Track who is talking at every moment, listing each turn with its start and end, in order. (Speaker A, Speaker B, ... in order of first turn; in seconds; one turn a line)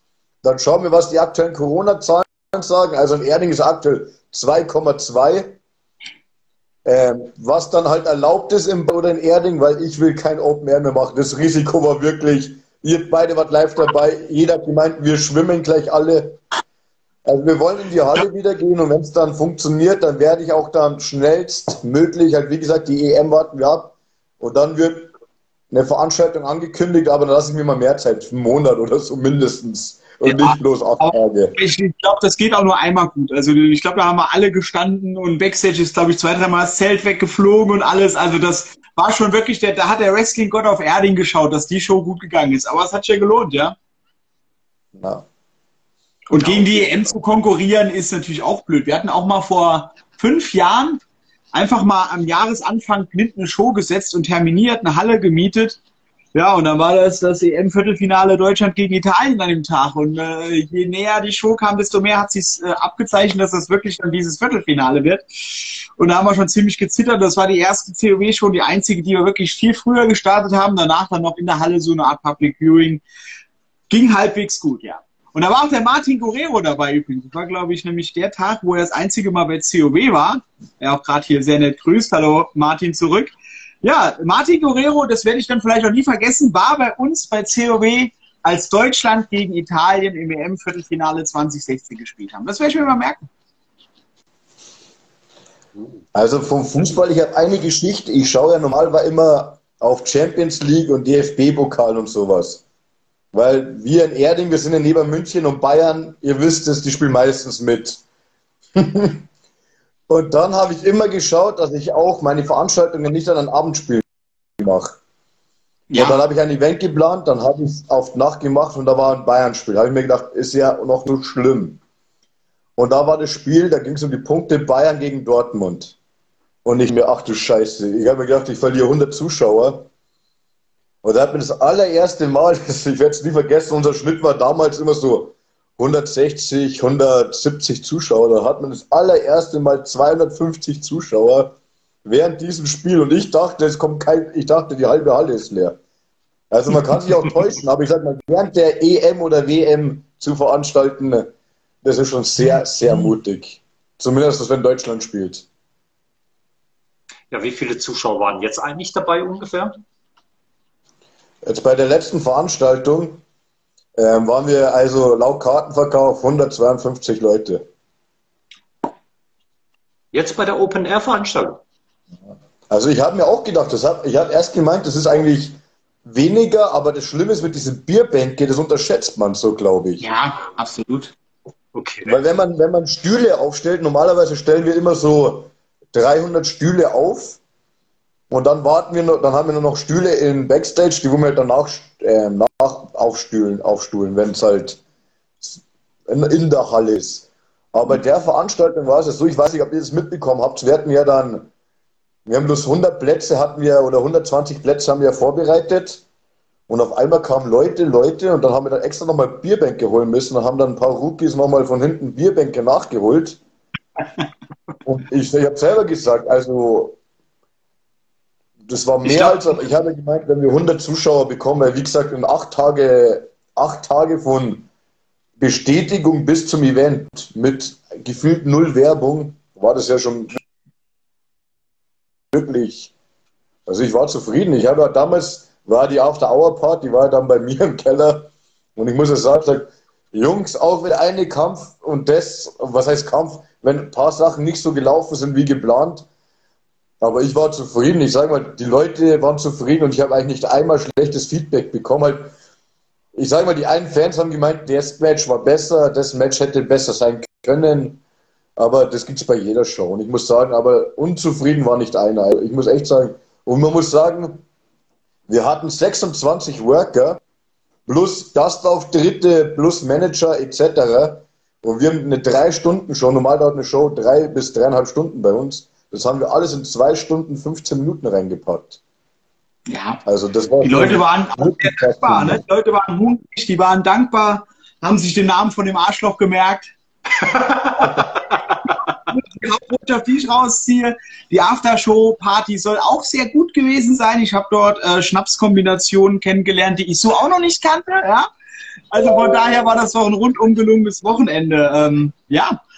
Speaker A: 0.4-5.6
Speaker A: 6.8-16.4
Speaker A: 17.2-25.1
Speaker A: 25.7-31.6
Speaker B: 30.2-43.8
Speaker A: 45.0-45.2
Speaker B: 46.3-51.0
Speaker C: 46.4-47.1
Speaker B: 51.5-55.8
Speaker B: 56.3-73.0
Speaker B: 73.9-93.3
Speaker A: 96.1-102.6
Speaker A: 103.3-108.0
Speaker A: 108.8-109.2
Speaker A: 110.1-114.1
Speaker A: 114.6-115.0
Speaker B: 115.9-116.2
Speaker A: 115.9-121.8
Speaker A: 122.8-126.0
Speaker A: 126.6-129.9
Speaker A: 131.0-145.8
Speaker A: 146.5-151.3
Speaker A: 151.8-155.4
Speaker C: 157.3-159.8
Speaker A: 161.4-163.2
Speaker A: 164.0-167.7
Speaker C: 170.1-171.6
Speaker A: 172.7-180.0
Speaker B: 180.0-181.1
Speaker C: 181.7-182.2
Speaker A: 182.0-187.4
Speaker A: 188.3-194.8
Speaker A: 195.4-201.5
Speaker A: 202.2-206.0
Speaker A: 206.7-213.4
Speaker A: 214.8-217.0
Speaker A: 218.7-224.7
Speaker B: 219.0-219.4
Speaker A: 225.4-230.3
Speaker A: 232.3-232.9
Speaker A: 233.7-246.1
Speaker A: 247.0-252.3
Speaker A: 253.1-258.0
Speaker A: 258.6-264.4
Speaker A: 265.3-267.2
Speaker A: 267.9-278.8
Speaker B: 279.7-280.0
Speaker A: 280.0-282.4
Speaker B: 280.6-286.7
Speaker C: 287.2-288.5
Speaker B: 288.7-298.3
Speaker B: 298.9-302.6